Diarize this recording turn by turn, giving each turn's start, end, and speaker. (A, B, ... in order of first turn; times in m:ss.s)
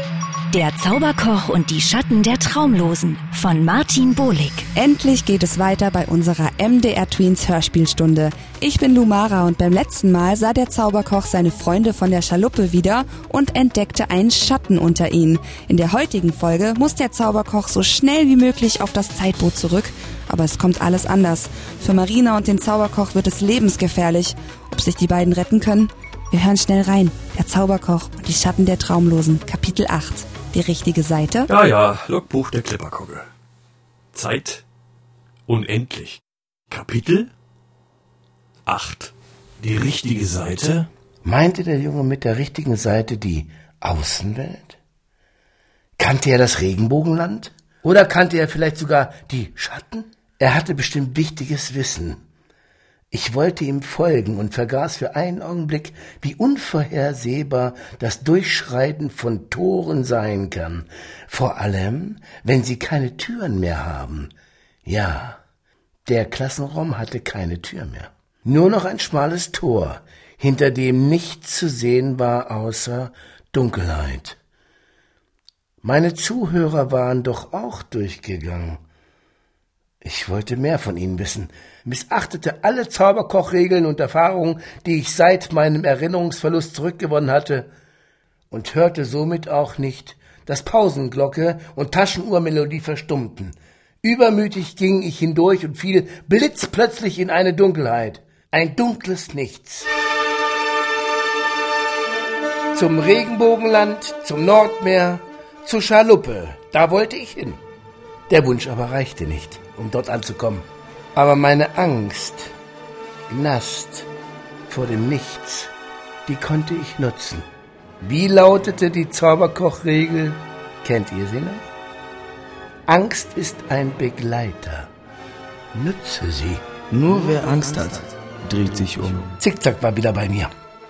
0:00.5-0:04.7 A
0:04.7-0:31.5 B
0:31.5-0:33.3 C
0:34.1-0:34.6 C
0:35.5-0:37.3 C
0:38.7-0:40.9 C
0:41.2-0:44.8 D
0:46.0-0:52.2 D
0:53.1-1:04.3 D
1:04.8-1:05.4 D
1:06.1-1:14.4 D
1:15.8-1:18.8 D
1:20.0-1:27.7 D
1:28.5-1:39.9 D
1:42.7-1:47.6 D
1:48.3-1:52.5 D
1:53.3-1:54.1 D
1:54.7-1:55.7 D
1:56.3-1:57.4 D
1:58.0-2:01.6 D
2:02.9-2:04.9 D
2:05.7-2:06.6 D
2:06.9-2:09.3 E
2:09.4-2:10.5 D